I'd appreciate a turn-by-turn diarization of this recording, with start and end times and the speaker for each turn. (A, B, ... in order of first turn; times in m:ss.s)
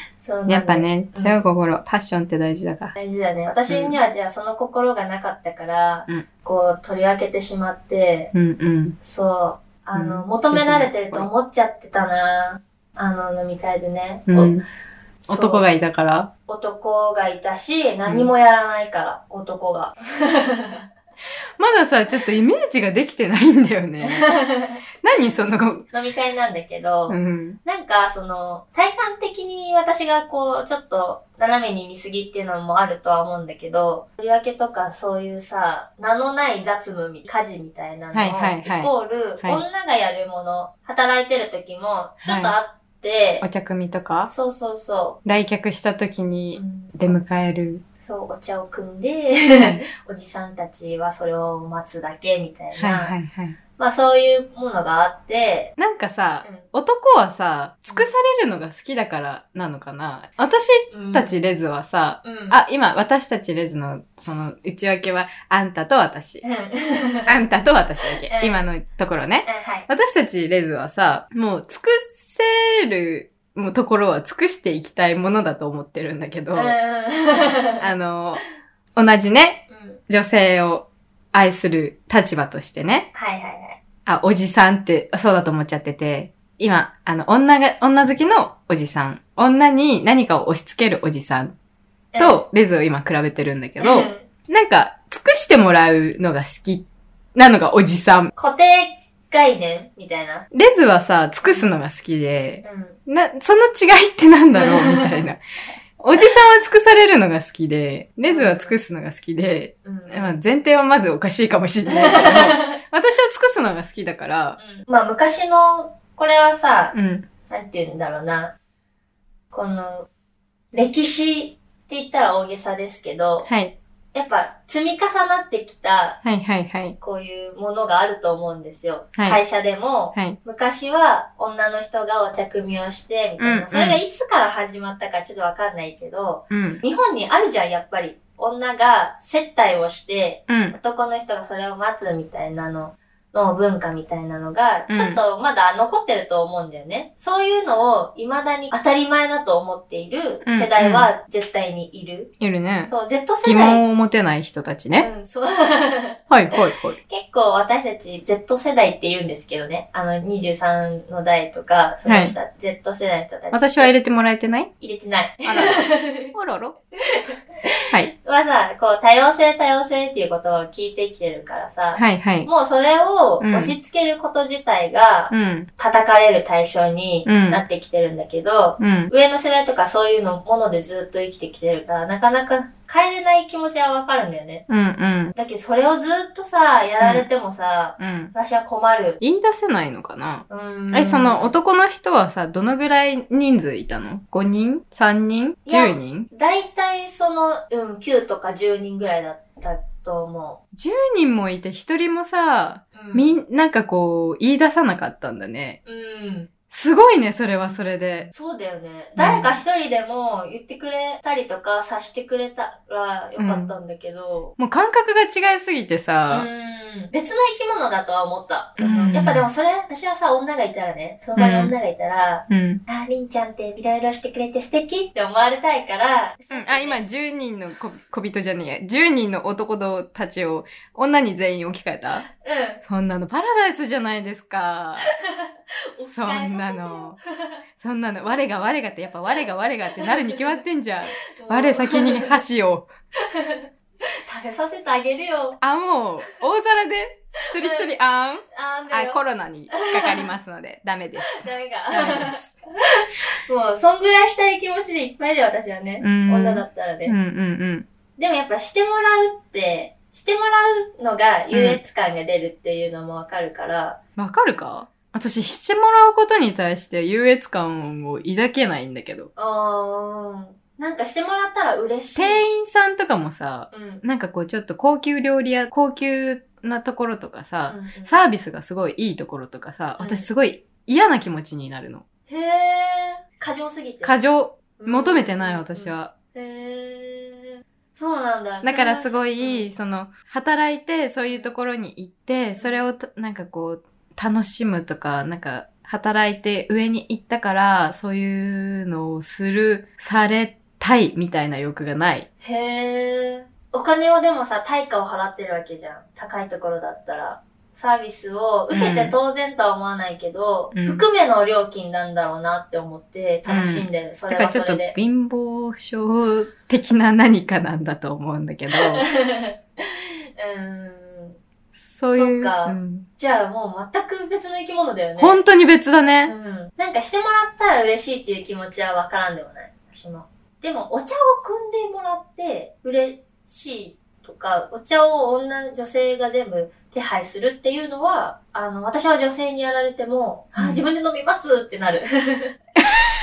0:00.2-0:01.4 A
0:00.5-0:02.9 B
0:02.9-0:08.3 A
0:03.7-0:04.0 B
0:08.3-0:09.0 B
0:09.0-0:14.5 A
0:09.9-0:11.3 B
0:14.3-0:14.6 B
0:15.3-0:15.6 A
0:15.3-0:16.3 B
0:16.5-0:20.8 A
0:21.6-0:24.4 B
0:24.0-0:24.8 A
0:25.0-0:25.8 B
0:25.9-0:43.4 A
0:27.1-0:27.6 B
0:38.1-0:39.6 B
0:42.2-0:42.5 B
0:43.4-0:44.3 B
0:44.3-0:45.2 A
0:45.2-0:47.8 B
0:46.5-0:47.2 A
0:48.0-0:53.1 A
0:49.6-0:49.8 B
0:52.8-0:53.6 B
0:53.8-0:55.7 A
0:55.8-1:06.4 B
1:00.9-1:01.3 A
1:02.2-1:02.6 A
1:06.4-1:07.3 A
1:07.2-1:16.8 B
1:08.2-1:08.6 A
1:09.4-1:09.9 A
1:16.5-1:17.8 A
1:17.8-1:18.4 B
1:18.9-1:23.1 B
1:19.7-1:20.0 A
1:23.1-1:23.8 A
1:24.0-1:31.5 B
1:32.1-1:32.4 A
1:32.2-1:38.3 B
1:33.8-1:34.2 A
1:38.4-1:40.4 A
1:40.5-1:45.4 B
1:41.4-1:41.7 A
1:42.6-1:43.0 A
1:44.5-1:45.2 A
1:46.0-1:54.6 B
1:48.3-1:48.8 A
1:49.8-1:50.4 A
1:51.9-1:52.8 A
1:54.6-1:56.9 A
1:56.9-1:57.3 B
1:57.5-1:58.5 A
1:59.5-2:00.1 A
2:00.7-2:03.5 A
2:03.4-2:03.7 B
2:04.1-2:06.2 A
2:06.2-2:07.0 B
2:07.0-2:32.3 A
2:13.4-2:14.0 B
2:16.5-2:16.8 B
2:20.5-2:20.8 B
2:24.9-2:25.2 B
2:30.4-2:31.1 B
2:32.4-2:32.9 B
2:32.9-2:33.8 A
2:33.4-2:35.1 B
2:35.0-2:36.2 A
2:36.3-2:37.0 B
2:37.1-2:43.9 A
2:42.0-2:42.3 B
2:43.5-2:44.7 B
2:44.8-2:46.3 A
2:45.4-2:46.8 B
2:47.1-3:04.6 A
2:52.0-2:52.5 B
2:53.4-2:53.7 B
2:55.3-2:55.7 B
2:57.2-2:57.6 B
2:58.8-2:59.1 B
3:04.7-3:05.3 B
3:05.3-3:09.2 A
3:07.0-3:07.2 B
3:08.0-3:08.3 B
3:09.2-3:16.3 B
3:10.5-3:11.6 A
3:15.7-3:20.6 A
3:20.7-3:25.8 B
3:22.9-3:23.4 A
3:25.8-3:26.5 A
3:26.7-3:28.3 B
3:28.3-3:34.5 A
3:29.2-3:29.6 B
3:33.4-3:33.7 B
3:34.6-3:36.4 B
3:36.3-3:47.0 A
3:38.8-3:39.5 B
3:41.4-3:41.7 B
3:42.5-3:42.8 B
3:46.5-3:52.2 B
3:52.4-3:52.8 A
3:52.8-3:55.1 B
3:55.4-3:57.6 A
3:56.1-3:57.2 B
3:57.8-4:02.9 B
4:00.0-4:00.6 A
4:01.2-4:02.4 A
4:03.2-4:03.7 A
4:04.2-4:05.6 A
4:05.6-4:12.5 B
4:07.6-4:07.9 A
4:08.5-4:09.2 A
4:09.7-4:10.3 A
4:11.2-4:17.1 A
4:16.0-4:17.9 B
4:18.2-4:24.0 A
4:21.5-4:21.8 B
4:24.2-4:29.3 B
4:29.4-4:32.4 A
4:32.1-4:42.0 B
4:33.7-4:34.0 A
4:37.7-4:38.2 A
4:40.0-4:40.3 A
4:42.3-4:44.2 A
4:44.0-4:46.1 B
4:44.8-4:49.7 A
4:48.6-5:02.3 B
4:51.3-4:51.5 A
4:52.6-4:52.8 A
5:02.4-5:14.9 A
5:08.7-5:09.1 B
5:10.7-5:11.0 B
5:13.5-5:19.0 B
5:18.7-5:21.4 A
5:21.7-5:23.1 B
5:22.1-5:25.4 A
5:25.2-5:26.3 B
5:26.2-5:42.6 A
5:40.6-5:40.8 B